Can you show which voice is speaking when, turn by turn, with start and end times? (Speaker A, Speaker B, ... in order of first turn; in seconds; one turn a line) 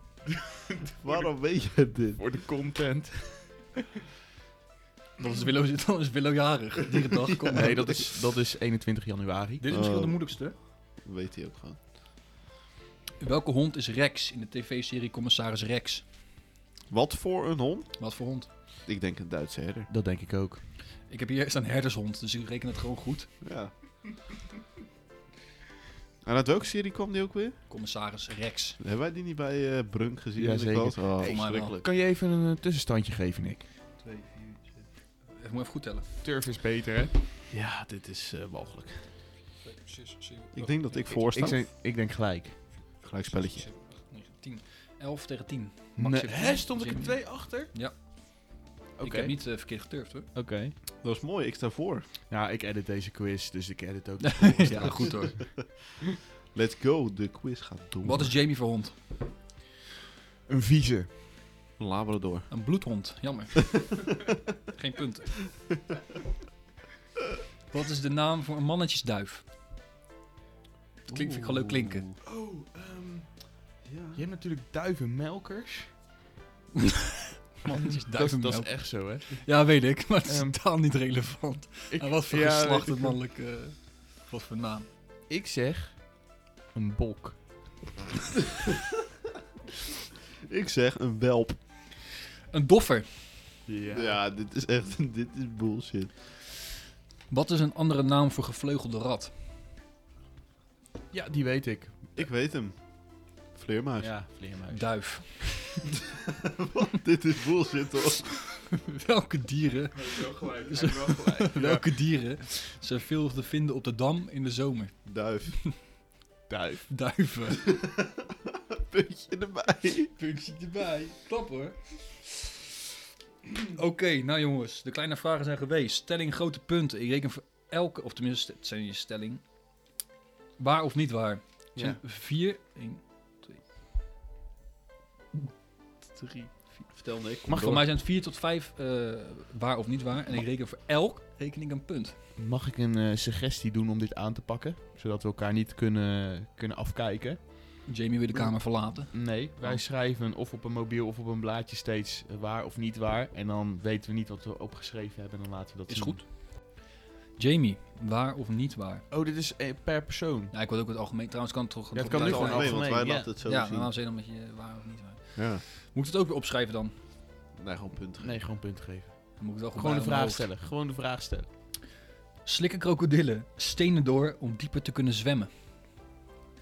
Speaker A: 0.3-1.3
Speaker B: 1.0-2.2
Speaker A: 2.2-3.7
Speaker C: 5.2-8.0
Speaker B: 7.5-7.9
Speaker A: 7.5-9.7
Speaker C: 9.6-10.6
Speaker B: 9.7-11.8
Speaker C: 13.2-16.1
Speaker B: 16.9-18.0
Speaker C: 18.0-18.5
Speaker B: 18.9-19.9
Speaker A: 19.9-20.6
Speaker C: 21.1-23.4
Speaker B: 23.4-23.8
Speaker B: 26.2-27.6
Speaker C: 27.7-28.8
Speaker B: 28.8-31.8
Speaker A: 30.4-33.7
Speaker C: 31.2-31.8
Speaker C: 34.0-36.2
Speaker A: 36.2-37.1
Speaker B: 37.5-39.1
Speaker C: 39.6-41.4
Speaker B: 40.5-41.7
Speaker A: 41.1-42.6
Speaker C: 42.9-50.3
Speaker B: 43.0-43.7
Speaker A: 46.0-47.7
Speaker A: 49.0-49.4
Speaker A: 50.3-50.8
Speaker B: 51.0-52.1
Speaker A: 52.3-55.5
Speaker C: 54.2-55.6
Speaker B: 54.6-55.6
Speaker B: 56.5-58.4
Speaker C: 58.0-59.0
Speaker A: 60.5-61.1
Speaker B: 61.8-62.5
Speaker C: 62.5-64.1
Speaker C: 64.7-65.7
Speaker C: 67.7-69.4
Speaker C: 71.1-72.1
Speaker B: 71.1-72.2
Speaker A: 72.2-73.5
Speaker B: 73.8-74.2
Speaker A: 74.1-75.9
Speaker C: 77.5-84.9
Speaker A: 78.1-79.5
Speaker A: 80.2-80.6
Speaker A: 81.9-83.2
Speaker A: 85.3-87.5
Speaker B: 90.5-91.6
Speaker C: 92.5-93.6
Speaker A: 93.7-94.2
Speaker B: 93.9-96.1
Speaker C: 97.3-99.3
Speaker A: 101.1-102.3
Speaker B: 102.2-104.2
Speaker A: 104.0-105.5
Speaker C: 104.7-105.8
Speaker B: 106.4-108.3
Speaker C: 108.5-115.7
Speaker A: 109.9-111.9
Speaker B: 115.0-115.6
Speaker A: 116.5-116.9
Speaker C: 116.9-117.8
Speaker B: 117.7-118.0
Speaker B: 118.7-120.1
Speaker C: 120.2-122.6
Speaker C: 123.5-129.4
Speaker C: 130.6-133.6
Speaker A: 131.8-132.0
Speaker C: 136.1-142.2
Speaker B: 136.9-137.8
Speaker A: 137.5-137.8
Speaker A: 142.4-156.2
Speaker C: 147.9-149.8
Speaker C: 155.9-156.2
Speaker C: 157.4-159.1
Speaker A: 159.1-160.5
Speaker C: 160.5-166.9
Speaker A: 161.9-163.3
Speaker B: 162.1-163.9
Speaker B: 165.4-165.6
Speaker B: 167.6-168.4
Speaker A: 168.2-171.5
Speaker C: 169.4-170.5
Speaker C: 172.4-175.5